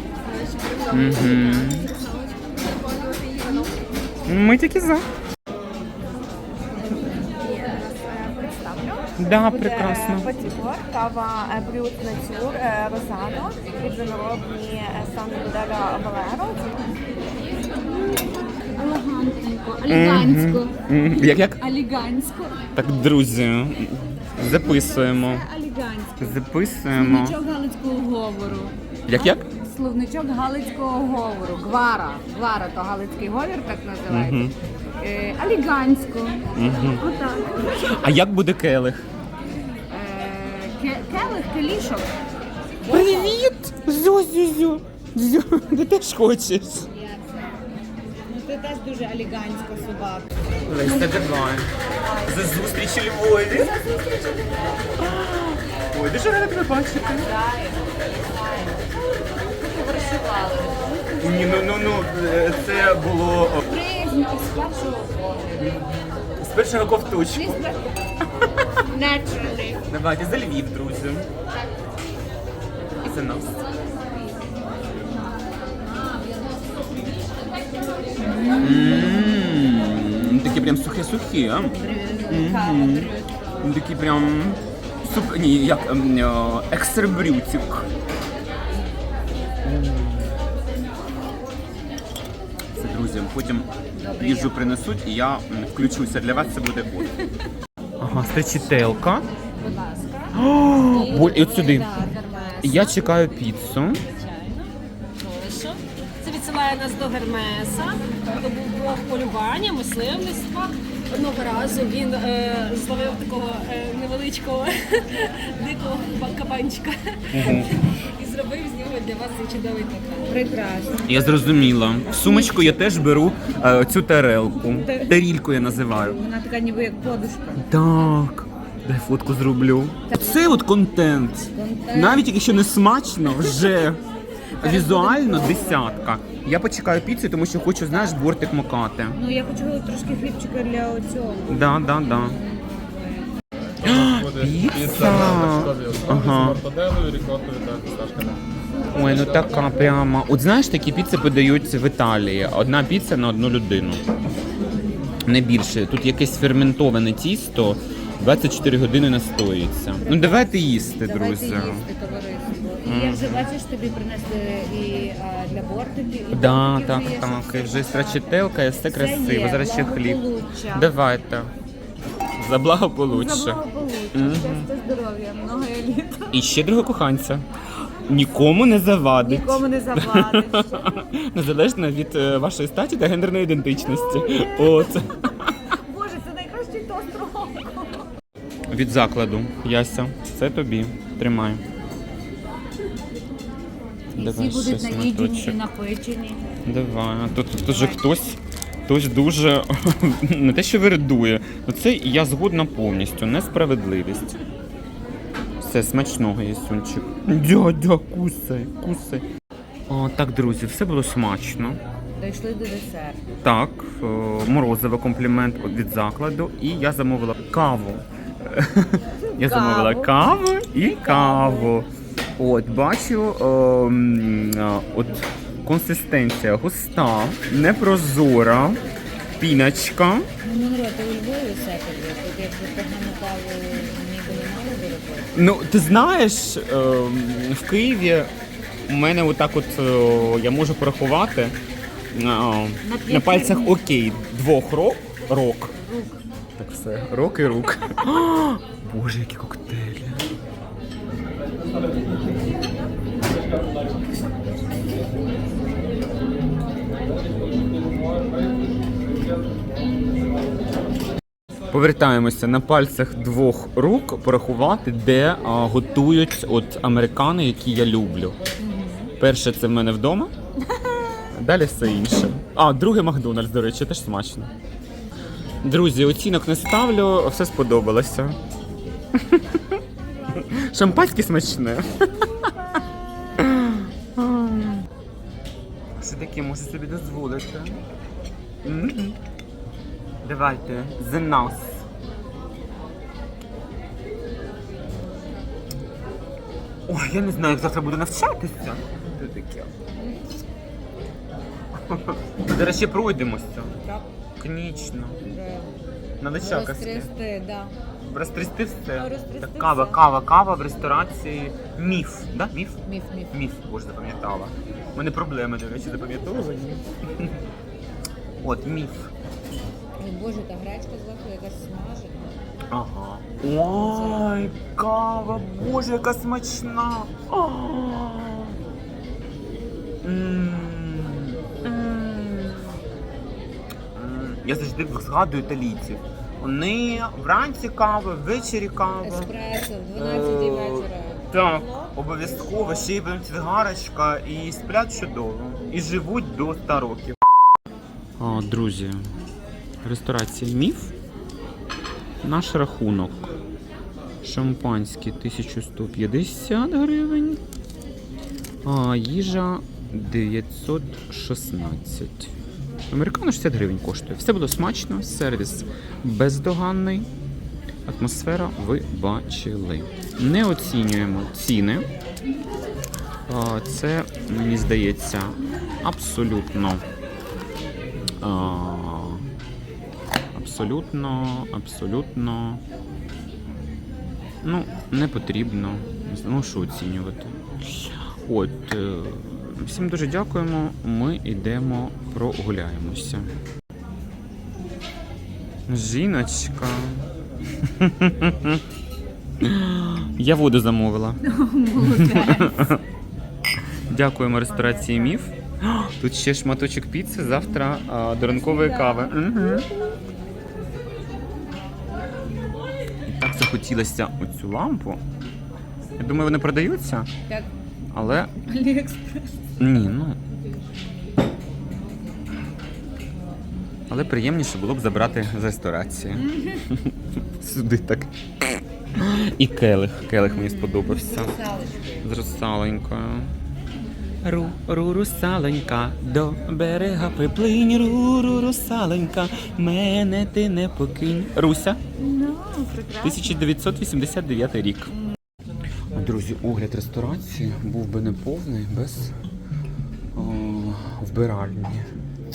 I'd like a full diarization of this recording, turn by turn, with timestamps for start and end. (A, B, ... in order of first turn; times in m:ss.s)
0:00.4-0:03.8 A
0:00.9-0:01.9 B
0:04.3-0:05.1 B
0:07.4-0:16.9 A
0:09.2-0:10.3 B
0:18.0-0:22.6 C
0:19.9-0:21.6 B
0:22.8-0:25.4 B
0:24.5-0:37.9 C
0:26.2-0:27.4 B
0:29.1-0:29.5 B
0:34.1-0:34.5 B
0:36.6-0:37.0 B
0:37.8-0:39.0 B
0:39.9-0:42.1 C
0:42.8-0:43.4 C
0:42.9-0:46.9 B
0:46.9-0:47.6 C
0:48.2-0:51.2 C
0:50.7-0:53.8 B
0:52.0-0:52.4 C
0:53.5-0:55.0 C
0:55.0-0:57.3 B
0:57.0-1:01.8 C
1:01.2-1:03.6 B
1:03.6-1:05.8 C
1:05.6-1:07.6 B
1:07.3-1:07.9 C
1:08.8-1:09.8 C
1:09.9-1:11.3 B
1:13.0-1:13.6 B
1:18.2-1:19.4 C
1:18.6-1:21.8 B
1:21.6-1:23.3 C
1:22.3-1:27.9 B
1:29.6-1:30.3 B
1:32.7-1:37.1 B
1:34.0-1:34.7 C
1:38.0-1:39.2 B
1:39.6-1:40.3 D
1:40.3-1:41.9 B
1:40.9-1:42.9 C
1:40.9-1:43.1 D
1:42.6-1:44.0 B
1:44.0-2:00.4 D
1:57.3-1:57.7 B
2:00.3-2:01.2 C
2:01.1-2:06.2 B
2:02.2-2:02.8 C
2:04.6-2:05.2 C
2:05.8-2:07.6 C
2:07.6-2:14.0 B
2:10.1-2:10.6 C
2:11.5-2:12.4 C
2:13.3-2:13.9 C
2:14.6-2:16.0 C
2:14.6-2:19.2 B
2:19.1-2:23.3 C
2:21.5-2:22.4 B
2:23.6-2:29.7 E
2:23.8-2:26.6 B
2:28.9-2:34.0 B
2:29.1-2:29.9 C
2:35.3-2:41.9 B
2:40.0-2:48.3 C
2:42.8-2:43.5 B
2:46.3-2:51.5 B
2:48.9-2:50.9 C
2:52.4-2:53.6 B
2:53.1-2:56.4 C
2:54.1-2:54.7 B
2:56.3-2:57.4 B
2:58.1-3:05.6 B
2:59.2-3:01.1 C
3:03.8-3:05.1 C
3:05.7-3:08.0 C
3:08.7-3:11.6 B
3:14.2-3:15.6 B
3:14.2-3:16.5 C
3:16.6-3:24.4 B
3:25.6-3:29.2 B
3:29.9-3:31.8 B
3:32.2-3:33.2 C
3:33.4-3:41.9 B
3:39.3-3:40.1 C
3:40.7-3:41.7 C
3:42.4-3:48.8 B
3:49.4-3:50.3 B
3:50.4-3:55.3 C
3:55.3-3:58.3 B
3:58.9-4:01.6 B
4:02.1-4:05.7 B
4:02.8-4:03.8 C
4:05.8-4:06.2 C
4:06.6-4:10.3 B
4:21.7-4:28.4 B
4:28.6-4:29.1 C
4:29.2-4:30.3 B
4:30.7-4:31.3 C
4:31.3-4:34.5 B
4:35.6-4:38.4 B
4:39.2-4:39.8 B
4:40.3-4:42.5 B
4:43.4-4:44.9 B
4:46.0-4:47.8 B
4:48.6-4:49.2 B
4:50.2-4:51.9 B
4:56.9-4:59.7 B
5:00.0-5:00.3 C
5:01.9-5:03.8 B
5:03.8-5:04.1 C
5:04.4-5:05.2 B
5:05.2-5:05.7 C
5:06.2-5:07.1 B
5:06.4-5:07.8 C
5:08.0-5:17.4 B
5:08.9-5:10.0 C
5:12.8-5:13.3 C
5:18.4-5:19.1 B
5:20.0-5:22.4 C
5:22.7-5:28.6 B
5:23.7-5:24.4 C
5:30.0-5:32.8 B
5:34.0-5:39.3 B
5:39.0-5:41.9 C
5:39.9-5:47.2 B
5:48.2-5:49.0 B
5:49.8-5:50.9 B
5:52.2-5:53.4 B
5:54.2-5:57.4 B
5:58.6-6:02.3 B
6:02.9-6:07.1 B
6:07.9-6:11.9 B
6:13.3-6:16.8 B
6:18.2-6:19.2 B
6:20.3-6:22.6 B
6:24.4-6:33.3 B
6:35.7-6:37.1 B
6:37.6-6:38.6 B
6:39.4-6:41.2 B
6:41.2-6:42.7 C
6:41.8-6:42.8 B
6:43.9-6:49.7 B
6:44.5-6:45.2 C
6:48.2-6:50.0 C
6:53.1-6:55.0 B
6:56.0-6:57.1 B
6:57.9-6:58.3 B
6:58.3-6:59.3 C
6:59.6-7:00.2 B
7:03.9-7:11.4 B
7:06.1-7:06.7 C
7:10.2-7:12.1 C
7:12.0-7:13.3 B
7:14.2-7:21.8 B
7:22.0-7:23.5 C
7:23.0-7:24.9 B
7:25.9-7:29.2 B
7:30.1-7:31.9 B